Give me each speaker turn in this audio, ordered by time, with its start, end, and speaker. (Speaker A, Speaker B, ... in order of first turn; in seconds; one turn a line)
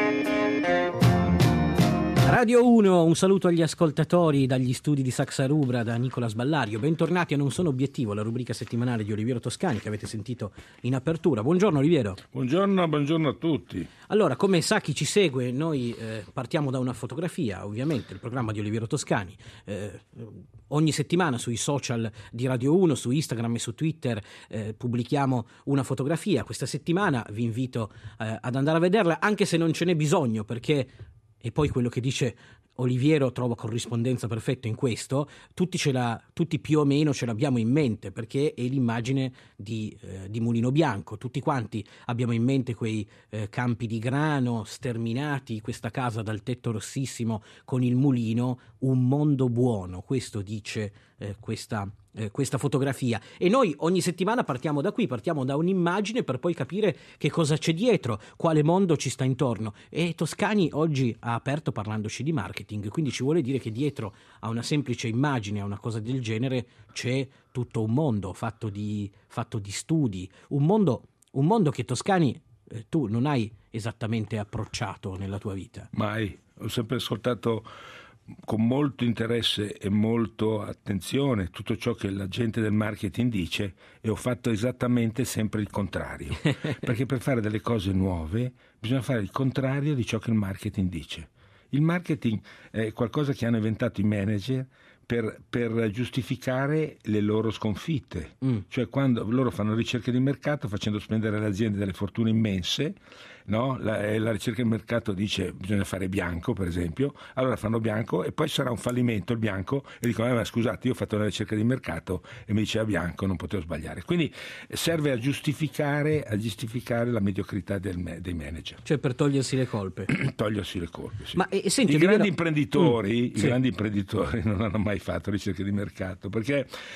Speaker A: 2.2-12.2
Speaker B: 12.3-13.9
Speaker A: 14.1-75.9
Speaker B: 75.9-77.7
Speaker B: 78.5-118.8
Speaker A: 118.8-120.1
Speaker B: 120.1-126.7
Speaker A: 121.3-123.6